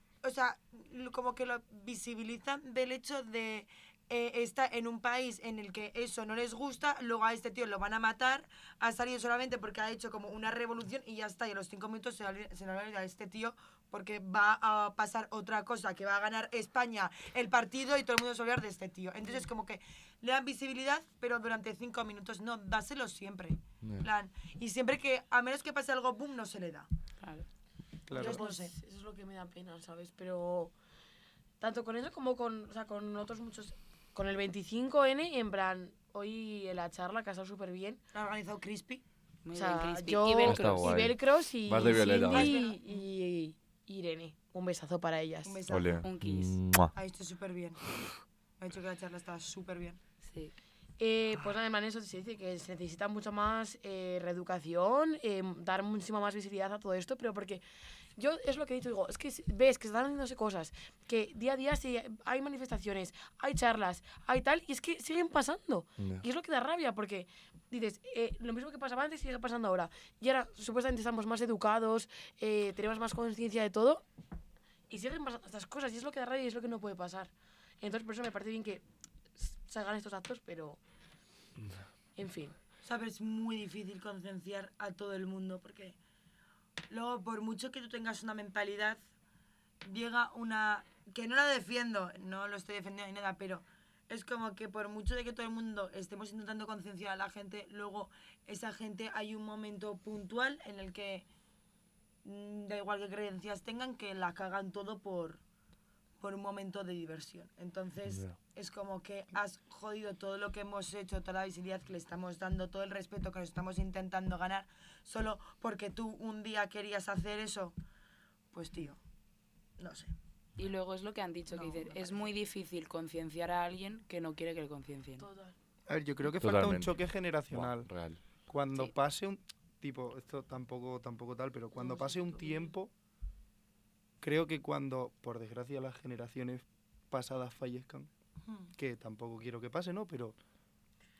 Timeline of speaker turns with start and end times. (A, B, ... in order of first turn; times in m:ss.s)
0:00.2-0:26.9 A
0:23.8-0:24.1 B
0:27.2-0:27.4 C
0:28.1-0:28.4 D
0:28.1-0:28.7 A
0:28.1-0:30.7 E
0:31.6-0:38.0 E
0:38.1-0:39.0 A
0:39.4-0:40.9 C
0:39.5-0:45.6 E
0:40.4-0:42.5 B
0:42.2-0:42.8 A
0:45.4-0:46.0 A
0:45.7-0:46.9 B
0:46.0-0:46.6 C
0:46.9-0:47.8 A
0:48.6-0:50.0 A
0:50.2-0:50.5 C
0:51.0-0:57.6 E
0:58.2-1:14.0 E
1:06.0-1:06.2 B
1:14.9-1:18.8 E
1:19.4-1:20.8 E
1:22.2-1:22.5 E
1:22.8-1:26.0 A
1:26.9-1:29.0 A
1:29.8-1:41.3 A
1:42.2-1:45.4 A
1:46.2-1:57.8 A
1:48.1-1:48.4 B
1:58.5-1:59.0 A
1:59.8-2:00.1 A
2:00.6-2:05.2 C
2:01.6-2:02.1 A
2:05.2-2:05.5 E
2:05.9-2:07.9 D
2:06.4-2:06.9 B
2:07.5-2:08.2 B
2:08.5-2:12.9 D
2:11.8-2:12.6 E
2:14.2-2:18.1 D
2:18.8-2:20.4 D